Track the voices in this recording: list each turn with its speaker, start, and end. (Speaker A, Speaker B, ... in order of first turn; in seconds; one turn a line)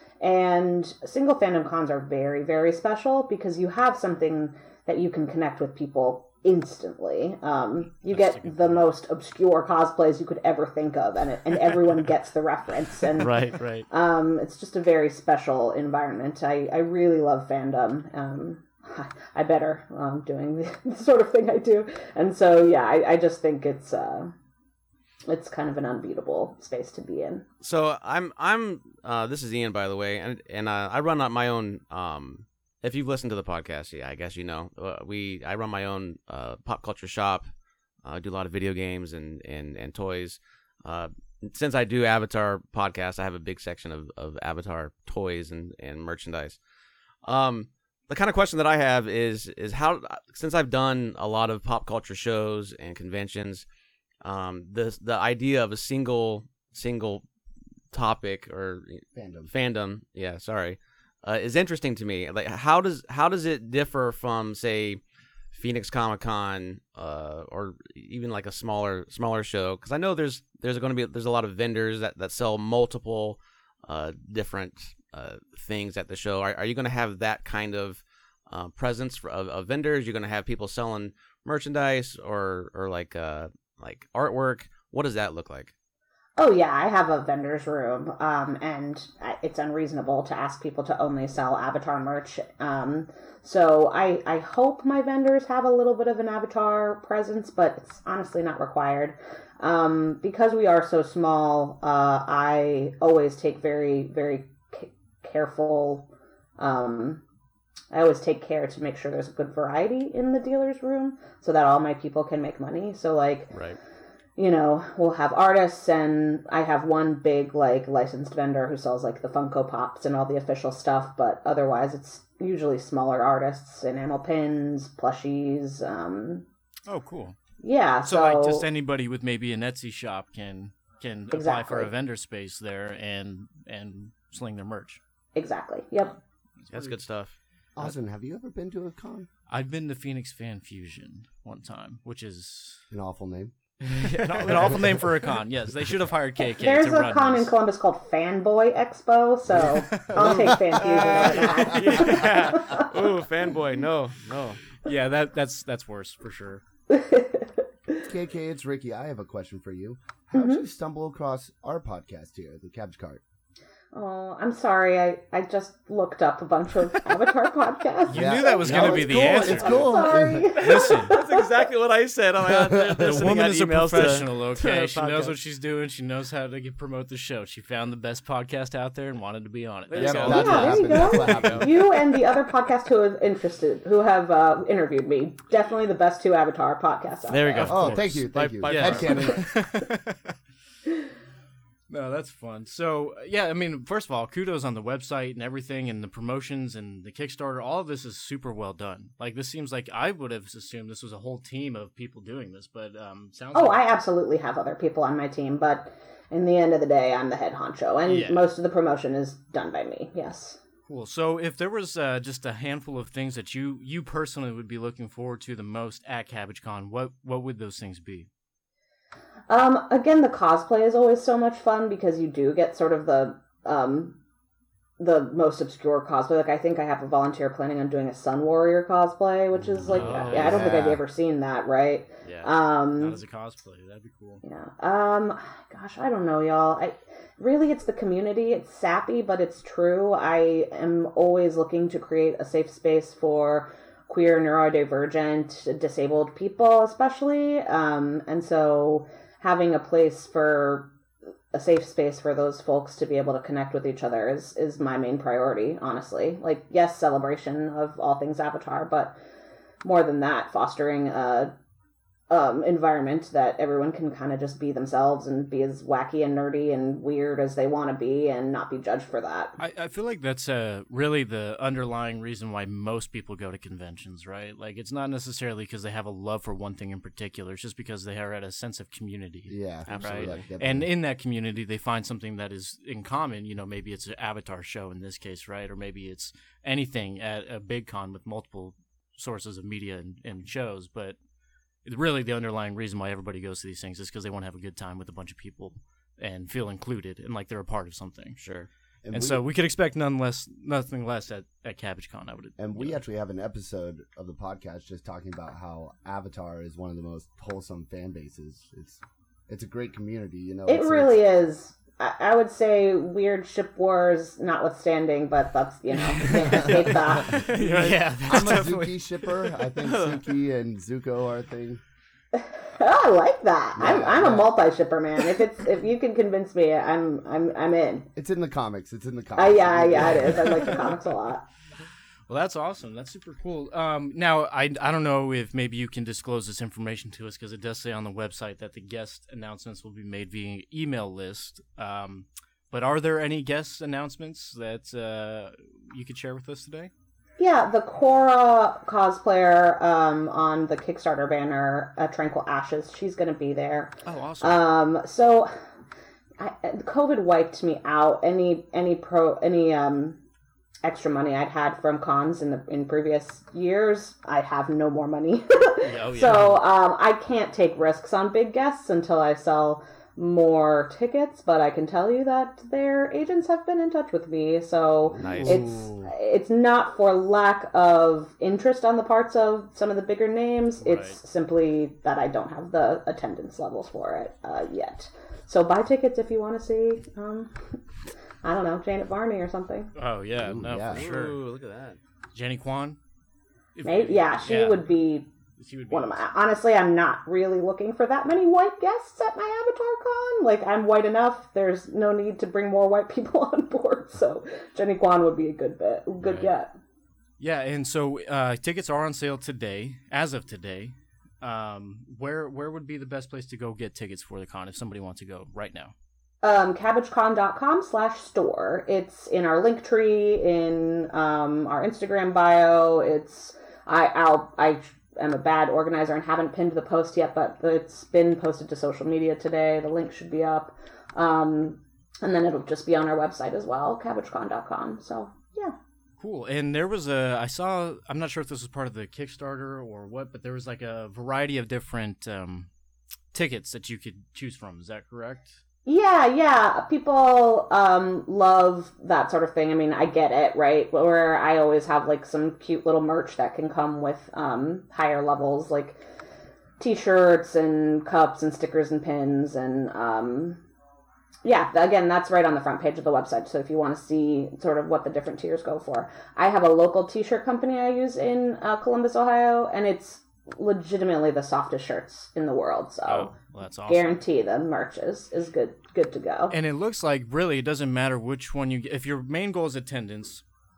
Speaker A: 0.2-24.3
Speaker B: 8.1-8.9
Speaker B: 13.2-13.8
Speaker A: 25.3-27.4
Speaker C: 27.6-37.5
Speaker C: 38.0-46.6
Speaker C: 47.2-53.6
Speaker C: 54.2-57.2
Speaker C: 57.9-65.0
Speaker D: 59.1-59.5
Speaker C: 65.5-85.7
Speaker A: 86.4-107.2
Speaker A: 107.9-113.6
Speaker C: 113.5-113.8
Speaker A: 114.4-126.4
Speaker B: 126.9-127.4
Speaker A: 127.6-128.7
Speaker B: 128.0-135.0
Speaker A: 131.3-131.9
Speaker A: 135.3-136.2
Speaker B: 136.6-137.0
Speaker C: 136.7-137.3
Speaker D: 137.8-139.3
Speaker B: 139.5-142.8
Speaker D: 142.9-143.5
Speaker B: 143.8-147.5
Speaker C: 144.1-144.6
Speaker A: 146.6-152.9
Speaker D: 149.5-151.0
Speaker B: 149.7-152.5
Speaker C: 150.2-154.6
Speaker B: 154.8-156.6
Speaker A: 156.9-158.1
Speaker D: 158.0-163.2
Speaker A: 160.3-160.6
Speaker A: 163.9-171.5
Speaker B: 168.1-169.8
Speaker D: 168.1-170.6
Speaker C: 170.4-175.3
Speaker B: 170.5-171.2
Speaker D: 172.4-173.2
Speaker B: 172.9-180.9
Speaker C: 179.9-181.7
Speaker D: 179.9-181.8
Speaker A: 180.2-188.0
Speaker C: 187.3-189.4
Speaker D: 187.6-189.5
Speaker B: 188.6-190.3
Speaker B: 191.9-203.9
Speaker A: 203.5-210.6
Speaker B: 208.1-208.5
Speaker B: 210.9-218.3
Speaker A: 219.5-224.2
Speaker A: 225.0-233.2
Speaker D: 229.5-231.0
Speaker B: 229.9-230.7
Speaker C: 229.9-230.7
Speaker C: 232.2-232.5
Speaker B: 233.0-234.4
Speaker A: 234.4-250.9
Speaker A: 251.5-259.2
Speaker A: 259.8-261.5
Speaker A: 262.3-269.6
Speaker B: 269.6-291.1
Speaker D: 279.5-280.9
Speaker C: 279.9-280.4
Speaker B: 291.8-298.4
Speaker C: 298.4-298.7
Speaker D: 299.0-299.4
Speaker B: 299.1-303.0
Speaker D: 302.6-311.2
Speaker A: 310.7-317.4
Speaker D: 316.2-317.4
Speaker B: 316.2-319.0
Speaker C: 317.3-318.6
Speaker D: 318.2-321.8
Speaker C: 319.8-320.2
Speaker A: 322.3-328.1
Speaker D: 323.7-324.5
Speaker D: 328.1-330.8
Speaker A: 329.4-331.4
Speaker B: 332.3-346.9
Speaker A: 347.4-355.5
Speaker B: 354.0-354.6
Speaker A: 356.4-360.2
Speaker A: 360.8-387.6
Speaker B: 365.8-366.6
Speaker D: 375.0-375.9
Speaker C: 375.2-375.6
Speaker B: 375.2-375.9
Speaker B: 380.8-381.2
Speaker A: 388.4-389.9
Speaker B: 389.9-391.4
Speaker D: 390.4-391.1
Speaker C: 390.9-392.0
Speaker B: 392.3-393.0
Speaker B: 393.7-394.9
Speaker A: 393.8-395.3
Speaker B: 395.6-396.2
Speaker A: 395.9-406.7
Speaker B: 407.4-415.9
Speaker A: 416.4-435.8
Speaker B: 436.2-442.7
Speaker B: 443.3-445.6
Speaker A: 445.9-456.0
Speaker A: 456.8-460.6
Speaker A: 461.4-473.4
Speaker B: 473.1-474.2
Speaker A: 473.9-476.6
Speaker B: 476.5-480.4